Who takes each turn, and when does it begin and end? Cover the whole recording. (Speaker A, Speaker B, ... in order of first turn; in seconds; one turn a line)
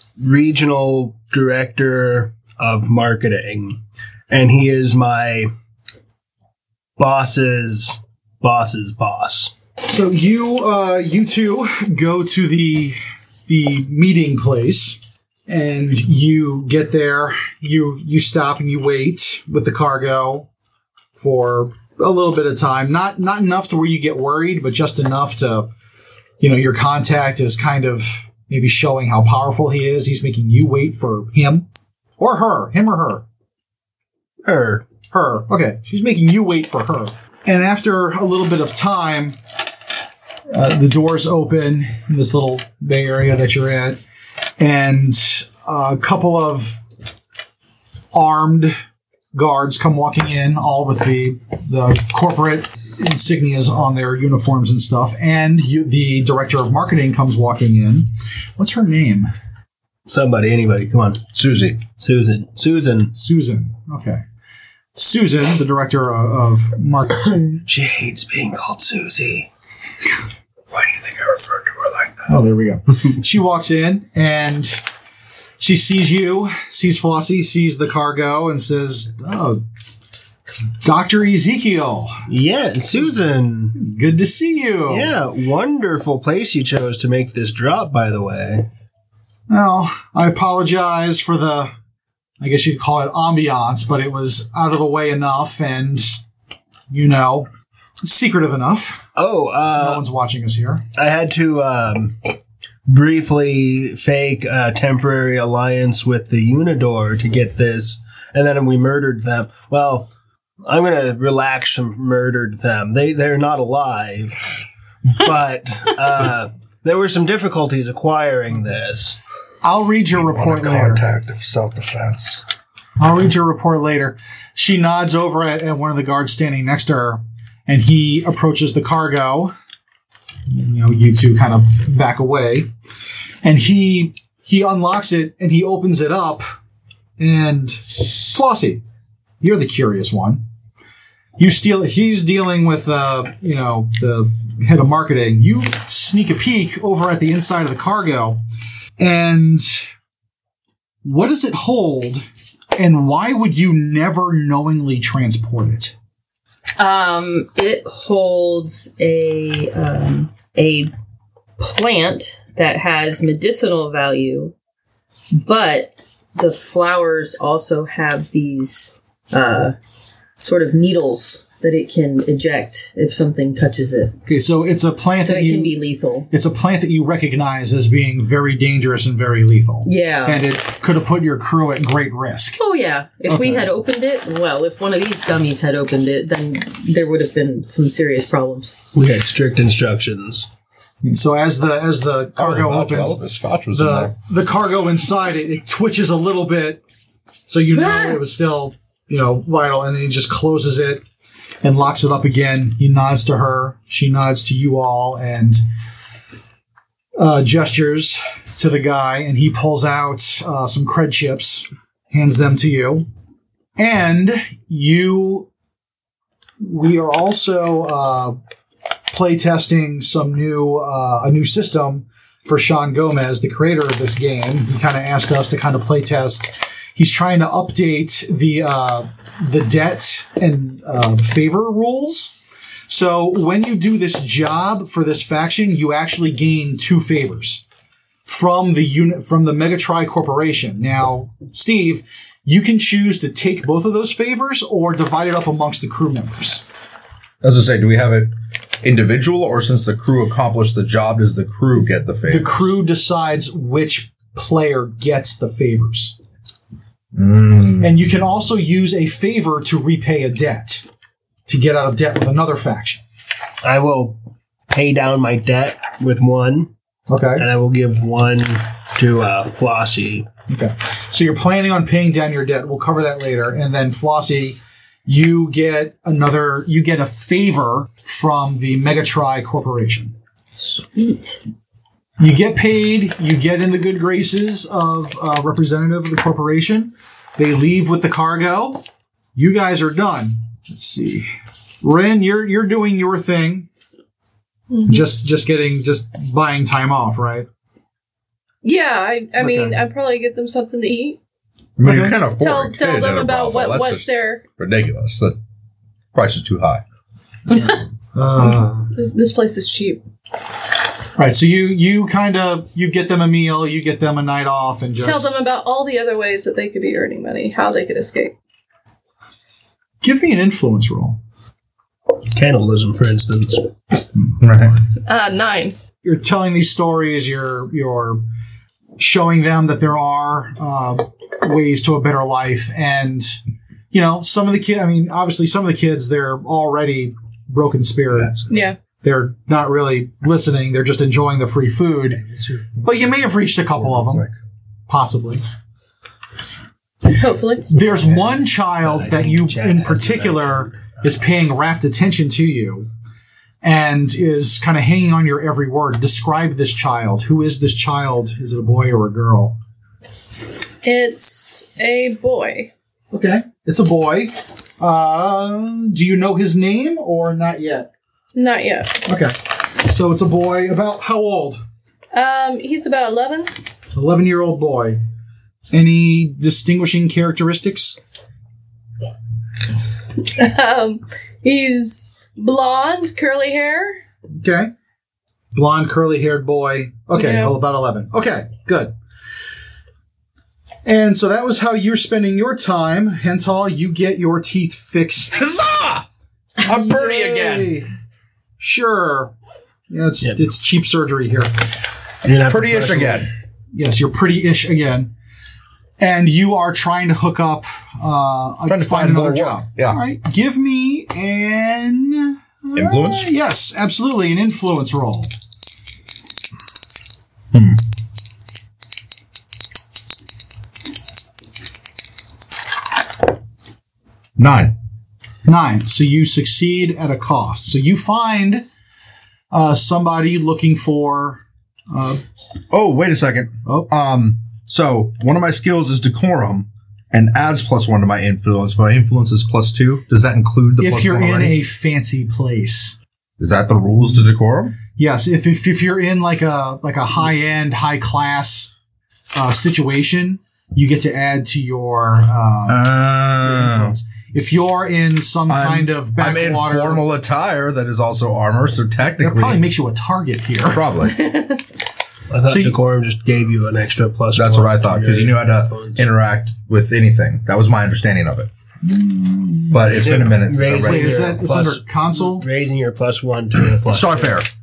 Speaker A: 0.2-5.5
Speaker A: 7.0-9.5
Speaker B: 9.9-20.5
Speaker B: 21.2-25.7
Speaker B: 26.4-31.7
Speaker B: 32.2-33.2
Speaker A: 34.5-34.9
Speaker B: 35.1-39.4
Speaker B: 40.5-44.0
Speaker B: 44.6-46.8
Speaker B: 48.1-48.8
Speaker B: 49.3-59.3
Speaker A: 60.1-61.2
Speaker C: 61.3-61.8
Speaker A: 61.9-63.1
Speaker B: 63.1-64.2
Speaker B: 65.0-67.3
Speaker D: 67.3-67.6
Speaker A: 67.7-69.5
Speaker A: 70.7-72.3
Speaker B: 72.3-74.8
Speaker B: 75.6-79.6
Speaker B: 80.8-82.2
Speaker A: 82.3-83.8
Speaker B: 83.8-85.2
Speaker A: 84.9-88.7
Speaker B: 89.5-91.7
Speaker B: 92.4-96.2
Speaker B: 96.9-97.5
Speaker B: 98.0-99.1
Speaker A: 99.2-100.0
Speaker B: 99.8-100.8
Speaker A: 101.0-102.3
Speaker A: 102.9-110.1
Speaker A: 110.6-114.4
Speaker A: 115.1-119.2
Speaker B: 119.6-121.0
Speaker C: 120.1-122.5
Speaker B: 123.0-129.5
Speaker B: 130.5-132.7
Speaker B: 133.4-136.4
Speaker B: 137.2-138.8
Speaker B: 139.4-140.4
Speaker B: 141.4-148.4
Speaker B: 149.0-149.9
Speaker B: 151.0-155.9
Speaker D: 156.8-160.9
Speaker D: 161.6-164.5
Speaker D: 165.4-169.8
Speaker D: 170.4-174.2
Speaker B: 174.3-175.8
Speaker D: 175.2-176.3
Speaker B: 176.3-182.6
Speaker D: 179.8-180.4
Speaker D: 182.6-188.8
Speaker B: 183.3-183.7
Speaker A: 188.9-190.5
Speaker B: 191.0-196.8
Speaker C: 192.4-194.1
Speaker B: 197.5-201.0
Speaker D: 197.8-198.2
Speaker B: 201.6-205.6
Speaker B: 207.2-213.1
Speaker B: 213.8-215.5
Speaker B: 216.6-218.4
Speaker B: 219.1-237.6
Speaker B: 238.3-246.7
Speaker C: 247.4-252.7
Speaker B: 252.3-256.2
Speaker C: 257.1-257.9
Speaker B: 257.8-260.9
Speaker B: 261.5-263.0
Speaker A: 263.6-264.2
Speaker A: 264.7-266.7
Speaker B: 267.1-267.5
Speaker A: 267.4-270.3
Speaker B: 270.5-280.1
Speaker D: 280.6-281.4
Speaker B: 282.2-288.8
Speaker B: 289.4-291.3
Speaker B: 291.8-293.7
Speaker E: 294.7-295.1
Speaker B: 294.9-297.5
Speaker E: 298.6-301.2
Speaker B: 299.4-299.8
Speaker C: 301.8-305.4
Speaker B: 301.8-302.2
Speaker E: 302.4-304.4
Speaker C: 306.1-306.8
Speaker B: 307.5-308.9
Speaker E: 308.5-310.0
Speaker B: 311.2-315.3
Speaker E: 315.0-318.4
Speaker B: 320.0-321.2
Speaker A: 322.3-323.7
Speaker C: 324.4-324.8
Speaker E: 325.1-325.8
Speaker B: 326.0-328.2
Speaker B: 329.0-333.4
Speaker B: 333.9-338.4
Speaker C: 338.1-338.5
Speaker E: 338.5-338.8
Speaker B: 339.0-342.2
Speaker B: 342.8-344.3
Speaker C: 343.8-344.3
Speaker B: 344.9-345.4
Speaker E: 347.1-347.7
Speaker B: 347.7-352.9
Speaker A: 348.8-350.9
Speaker B: 353.6-359.6
Speaker E: 360.8-362.7
Speaker B: 363.1-367.9
Speaker E: 368.4-369.0
Speaker B: 369.1-371.6
Speaker E: 372.1-373.5
Speaker B: 373.9-375.0
Speaker B: 375.7-378.0
Speaker E: 380.3-384.0
Speaker B: 384.3-384.7
Speaker B: 385.5-388.9
Speaker E: 387.1-387.6
Speaker B: 390.9-395.4
Speaker C: 395.3-396.1
Speaker B: 396.6-397.9
Speaker C: 396.6-397.7
Speaker B: 398.6-399.3
Speaker B: 399.9-401.8
Speaker A: 402.2-403.3
Speaker C: 402.5-403.3
Speaker B: 403.7-405.1
Speaker B: 406.0-415.3
Speaker C: 408.7-410.0
Speaker C: 412.8-413.3
Speaker C: 417.5-417.8
Speaker C: 424.4-424.8
Speaker B: 425.4-428.7
Speaker B: 429.5-432.2
Speaker C: 432.7-441.6
Speaker B: 433.6-433.9
Speaker B: 440.8-443.0
Speaker C: 443.4-444.8
Speaker B: 444.9-448.8
Speaker B: 449.3-452.9
Speaker C: 452.7-453.9
Speaker B: 453.4-457.1
Speaker C: 455.5-459.6
Speaker B: 459.2-460.9
Speaker C: 460.7-461.3
Speaker E: 461.2-461.6
Speaker A: 462.3-466.1
Speaker B: 462.5-462.8
Speaker C: 464.4-468.5
Speaker B: 468.8-470.1
Speaker C: 469.7-471.4
Speaker A: 469.9-474.4
Speaker B: 470.7-472.5
Speaker C: 473.9-474.5